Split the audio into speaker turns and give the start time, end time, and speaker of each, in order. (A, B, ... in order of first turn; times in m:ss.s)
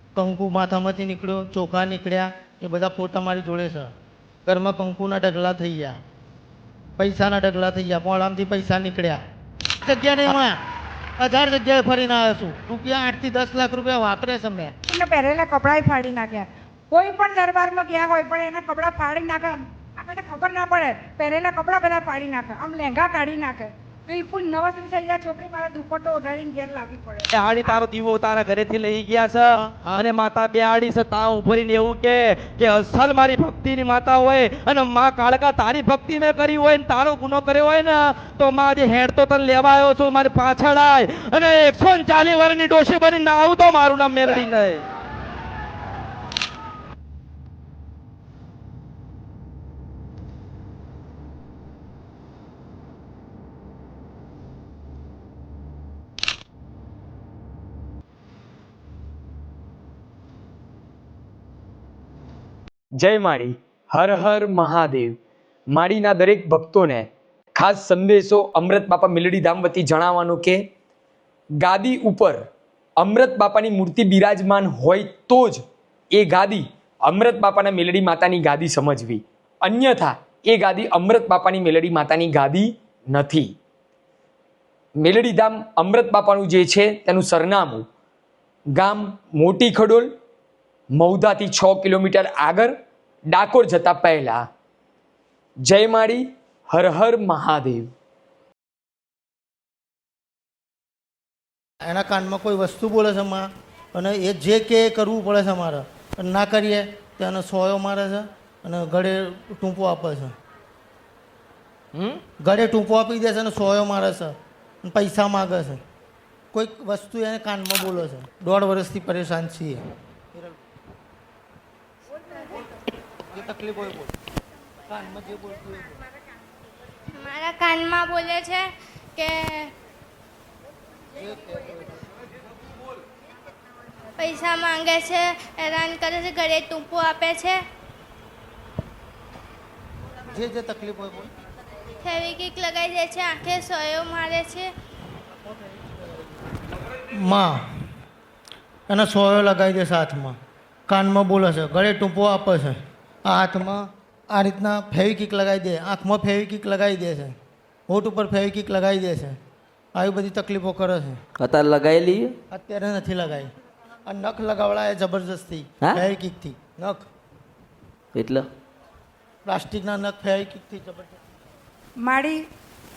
0:00.2-0:03.9 A
0:04.5-0:06.0 A
0:07.0-0:09.2 A
0:09.8-0:10.6 A
0:11.2-0:14.7 A
0:14.9-0:27.8 B
0:27.3-0:44.8 C
1:03.0-1:05.2 D
1:05.7-1:10.6 D
1:11.6-1:12.4 D
1:13.0-1:15.6 D
1:16.1-1:23.5 D
1:25.0-1:27.8 D
1:28.8-1:30.1 D
1:31.0-1:32.7 D
1:33.3-1:34.4 D
1:35.7-1:37.9 D
1:41.8-1:50.3 A
1:52.0-1:52.2 C
1:52.4-1:55.8 A
1:56.5-1:59.8 A
2:00.3-2:00.6 A
2:03.3-2:04.1 A
2:04.9-2:06.0 A
2:07.1-2:09.7 E
2:11.2-2:12.0 A
2:14.2-2:17.6 E
2:20.3-2:21.3 A
2:22.0-2:24.7 E
2:25.6-2:26.0 A
2:27.1-2:27.6 A
2:28.9-2:37.4 A
2:37.9-2:39.4 A
2:40.0-2:41.2 A
2:41.4-2:42.3 C
2:42.5-2:43.5 A
2:44.1-2:47.1 A
2:45.8-2:46.1 C
2:48.2-2:48.4 C
2:49.5-2:51.2 A
2:52.0-2:52.4 B